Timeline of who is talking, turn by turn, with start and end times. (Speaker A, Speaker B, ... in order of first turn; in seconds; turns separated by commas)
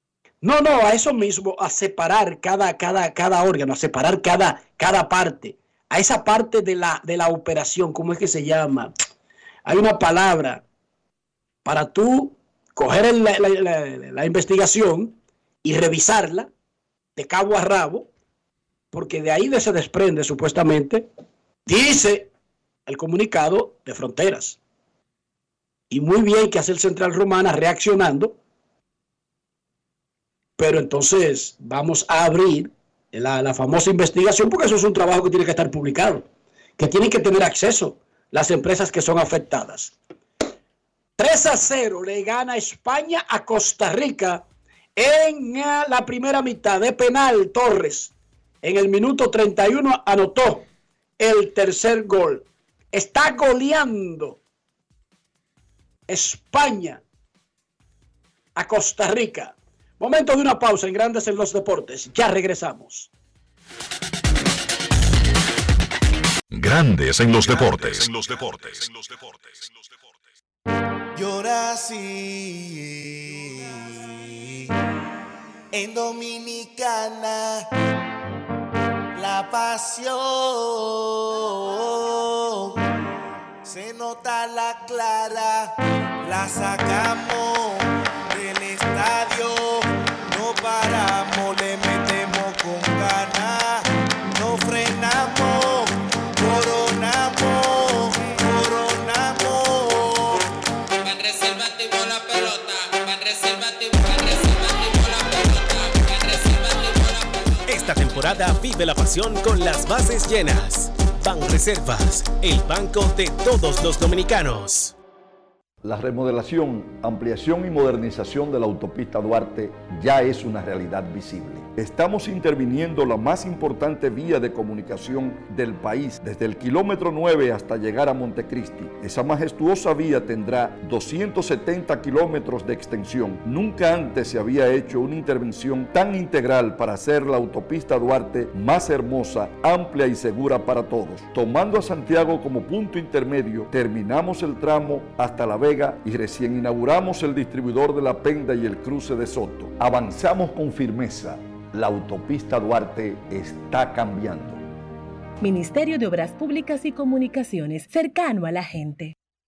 Speaker A: 0.4-8.9, Speaker A: 9.7-10.6, Speaker A: 11.7-16.5, Speaker A: 17.2-18.1, Speaker A: 18.9-21.1, Speaker A: 21.7-22.3, Speaker A: 22.9-24.6, Speaker A: 25.9-28.4, Speaker A: 30.6-36.3, Speaker A: 36.8-40.0, Speaker A: 41.2-44.4, Speaker A: 45.0-50.7, Speaker A: 51.2-54.4, Speaker A: 56.1-57.0, Speaker A: 58.6-63.1, Speaker B: 66.5-69.7, Speaker C: 71.2-74.4, Speaker C: 75.7-77.7, Speaker C: 79.2-82.8, Speaker C: 83.6-100.4, Speaker D: 101.0-107.5, Speaker E: 107.7-114.9, Speaker F: 115.8-154.6, Speaker G: 155.4-159.1